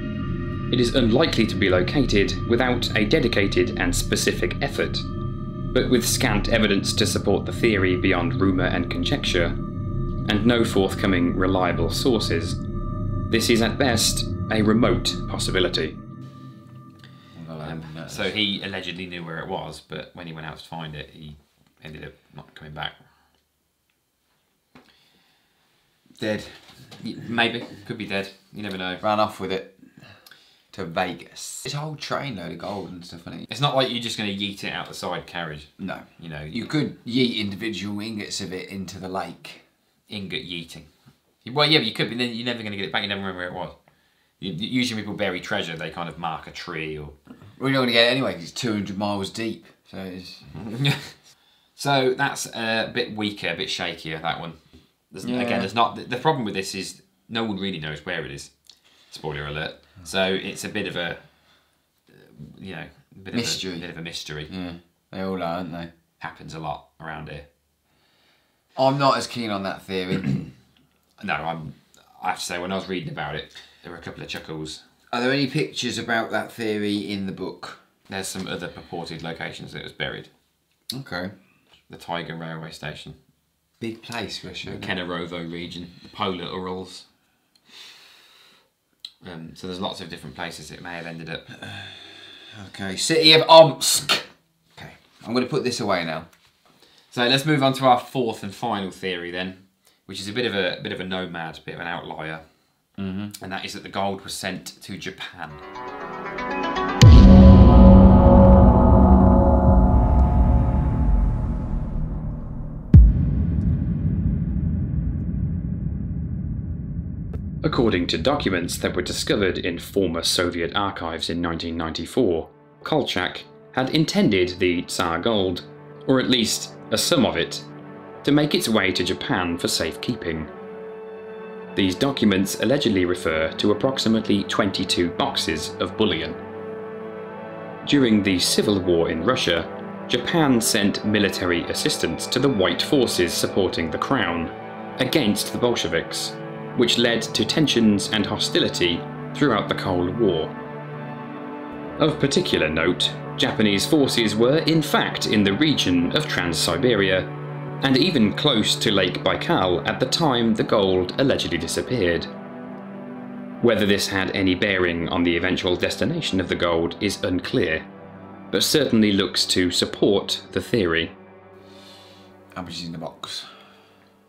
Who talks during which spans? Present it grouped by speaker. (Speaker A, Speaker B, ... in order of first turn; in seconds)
Speaker A: 0.7-5.0, 5.7-9.6, 10.2-12.6, 13.3-15.9, 117.6-127.7, 128.2-130.5, 131.8-136.4, 137.8-150.5, 152.0-157.3, 157.8-162.3, 163.6-167.8, 168.5-171.1
Speaker B: 17.3-18.3, 26.2-27.0, 29.0-29.9, 30.7-33.5, 35.8-39.6, 47.6-50.5, 55.2-55.7, 63.3-63.9, 64.5-65.9, 68.8-70.5, 75.1-77.8, 80.9-81.3, 83.8-84.9, 91.5-96.3, 103.0-103.3, 172.5-173.5
Speaker C: 17.6-23.0, 27.0-29.0, 33.5-36.7, 40.1-40.9, 41.4-43.8, 44.4-47.1, 50.5-51.2, 51.8-58.5, 59.1-61.3, 62.1-64.5, 66.2-67.5, 71.2-74.8, 78.1-80.3, 81.9-83.2, 84.6-87.0, 89.2-91.4, 97.1-102.4, 103.4-105.6